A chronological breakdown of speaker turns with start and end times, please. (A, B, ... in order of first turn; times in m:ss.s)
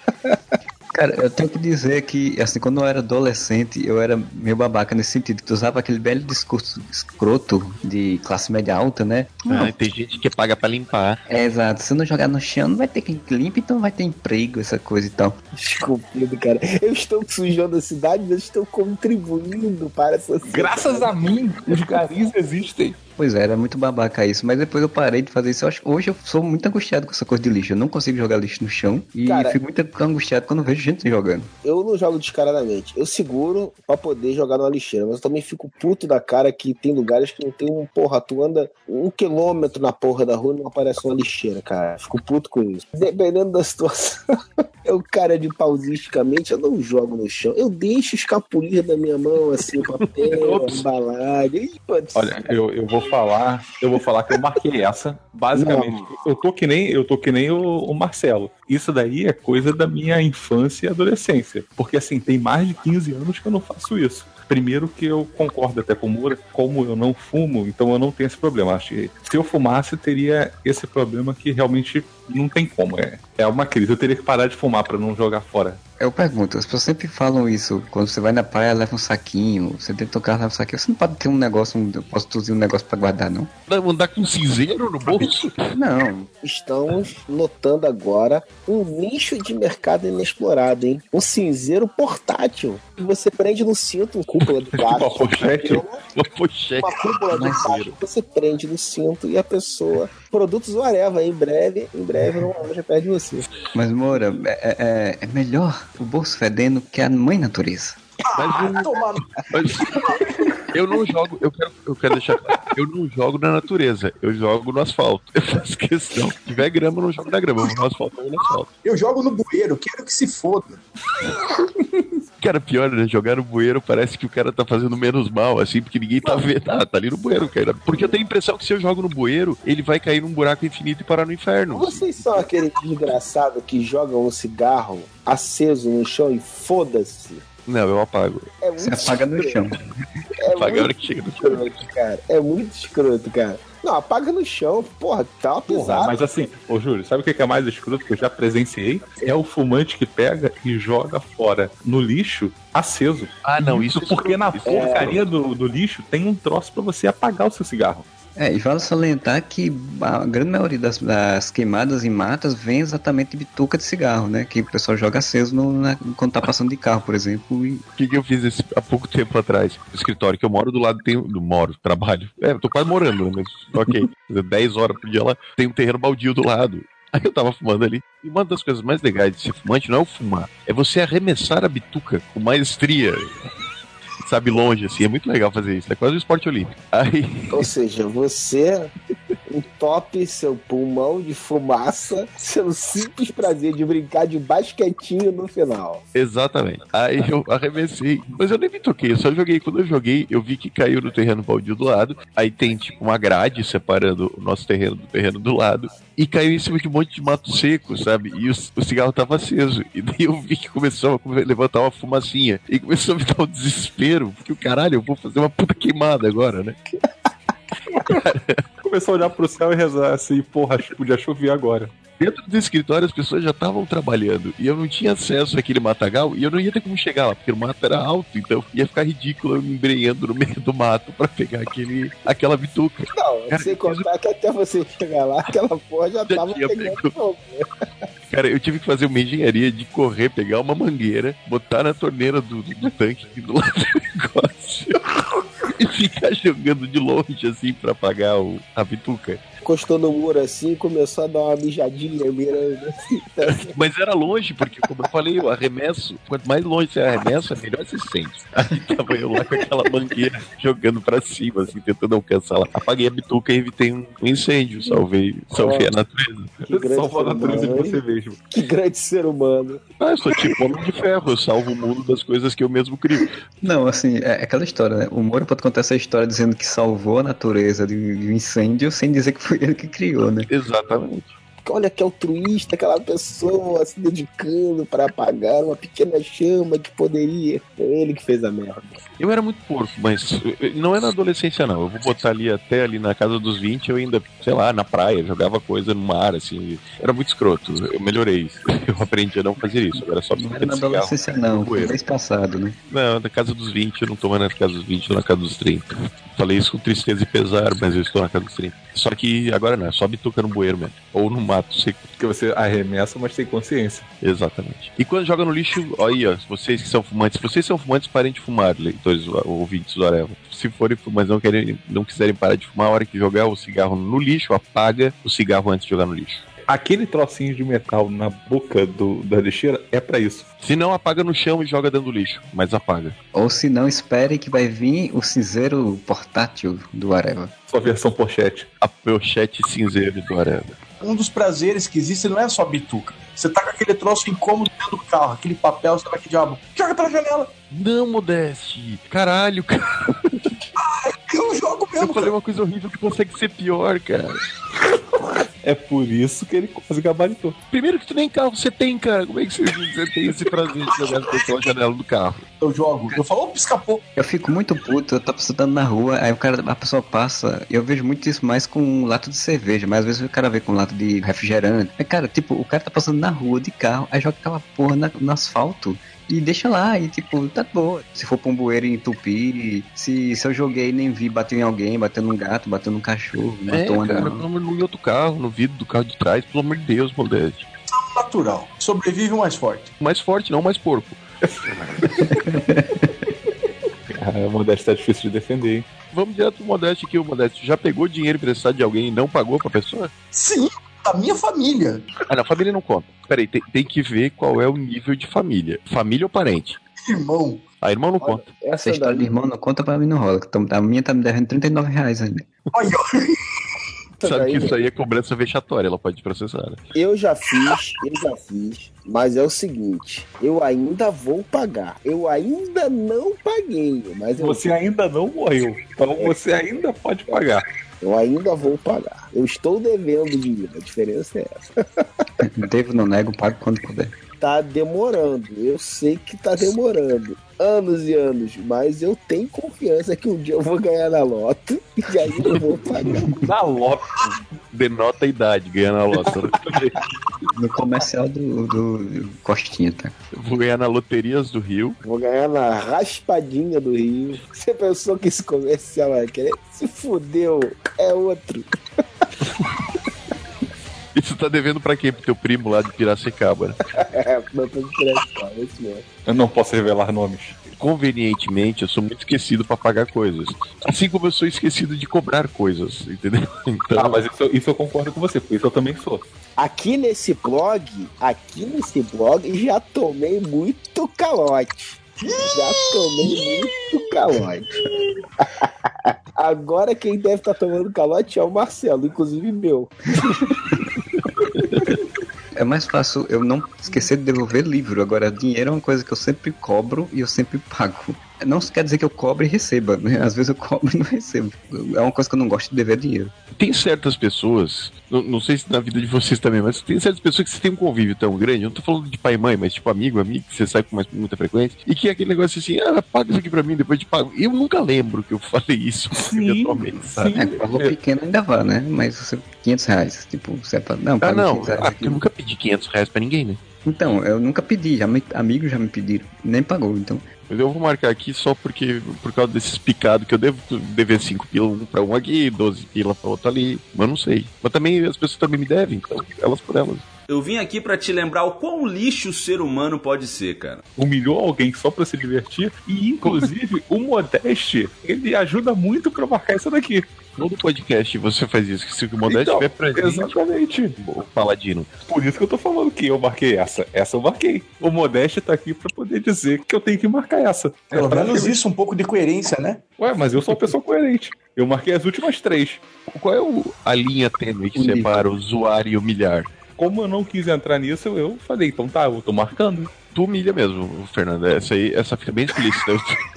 0:00.9-0:09.7 A
0:09.5-0:11.2 B
0:11.3-0:15.4 A
0:15.5-0:21.9 C
0:20.4-0:23.0 D
0:23.2-0:31.5 A
0:29.2-0:29.6 C
0:31.6-0:44.2 C
0:44.8-0:52.5 C
0:50.2-0:50.8 B
0:52.2-1:15.8 D
0:55.5-0:56.1 C
1:16.0-1:23.5 A
1:23.7-1:25.7 B
1:25.0-1:25.5 D
1:25.7-1:26.3 A
1:26.4-1:36.0 C
1:34.9-1:35.8 D
1:36.2-1:36.9 B
1:36.8-1:43.4 C
1:37.3-1:37.9 D
1:37.4-1:37.7 A
1:43.8-1:48.0 A
1:48.3-1:50.5 E
1:48.4-1:48.9 B
1:49.5-1:50.0 B
1:50.7-1:58.7 B
1:58.8-2:00.8 E
2:02.4-2:12.5 B
2:11.7-2:17.4 C
2:17.7-2:18.5 B
2:18.6-2:19.6 C
2:18.8-2:19.8 A
2:20.4-2:26.2 C
2:20.5-2:21.6 B
2:25.7-2:38.1 D
2:33.4-2:35.3 B
2:34.7-2:35.2 C
2:38.4-2:47.8 A
2:48.0-3:03.4 B
3:04.2-3:07.7 B
3:07.5-3:08.9 C
3:09.5-3:16.0 C
3:16.2-3:36.8 B
3:38.0-3:38.6 B
3:38.8-3:41.9 D
3:42.2-3:54.1 B
3:53.1-3:57.7 C
3:56.3-3:57.1 B
3:58.3-4:09.4 B
4:09.6-4:13.7 C
4:13.5-4:26.6 B
4:25.6-4:25.9 C
4:26.6-4:29.8 C
4:26.6-4:28.4 D
4:30.0-4:33.3 B
4:33.6-4:40.5 A
4:40.5-4:41.4 B
4:41.6-4:49.0 C
4:49.2-5:01.9 B
5:00.4-5:02.8 A
5:02.9-5:12.0 B
5:12.2-5:14.1 D
5:14.2-5:26.5 B
5:26.7-5:30.5 D
5:30.6-5:33.2 B
5:33.3-5:37.5 A
5:37.7-5:38.7 D
5:38.8-5:40.8 B
5:41.0-5:47.5 E
5:47.7-5:50.5 B
5:50.8-5:52.3 E
5:52.0-5:54.4 B
5:55.2-5:57.6 D
5:57.7-6:02.4 B
6:02.6-6:04.0 E
6:04.2-6:24.4 A
6:23.7-6:27.7 B
6:27.9-6:29.9 E
6:30.0-6:31.2 B
6:31.4-6:32.4 D
6:32.4-6:33.0 A
6:34.1-6:35.9 D
6:36.1-6:40.1 B
6:40.3-6:42.1 E
6:42.3-6:46.8 B
6:47.0-6:47.6 E
6:47.8-6:48.5 B
6:48.2-6:49.3 C
6:48.7-6:52.5 A
6:52.7-6:53.4 E
6:54.2-6:54.8 C
6:54.2-6:56.8 B
6:57.0-7:04.7 C
7:04.4-7:07.7 D
7:08.0-7:12.0 C
7:12.4-7:14.2 A
7:14.4-7:23.4 C
7:23.4-7:24.4 D
7:24.7-7:26.9 B
7:26.6-7:27.0 D
7:27.5-7:30.2 A
7:30.3-7:32.0 B
7:32.0-7:38.7 C
7:41.2-7:43.8 B
7:44.0-7:46.0 C
7:46.3-7:47.6 D
7:47.7-7:54.2 B
7:53.9-7:56.2 D
7:56.6-8:04.8 C
8:05.4-8:10.0 C
8:11.6-8:11.9 B
8:12.6-8:23.3 A
8:23.6-8:37.2 B
8:36.2-8:38.0 D
8:37.3-8:42.2 A
8:41.2-8:43.6 B
8:43.8-8:47.3 A
8:47.5-8:57.0 B
8:57.3-9:00.8 F
9:01.0-9:07.1 D
9:07.4-9:10.3 B
9:09.3-9:11.0 D
9:11.0-9:11.9 B
9:12.1-9:18.6 D
9:17.9-9:19.8 E
9:20.0-9:22.8 D
9:23.1-9:26.5 B
9:24.8-9:25.3 A
9:26.8-9:29.9 D
9:30.1-9:33.2 B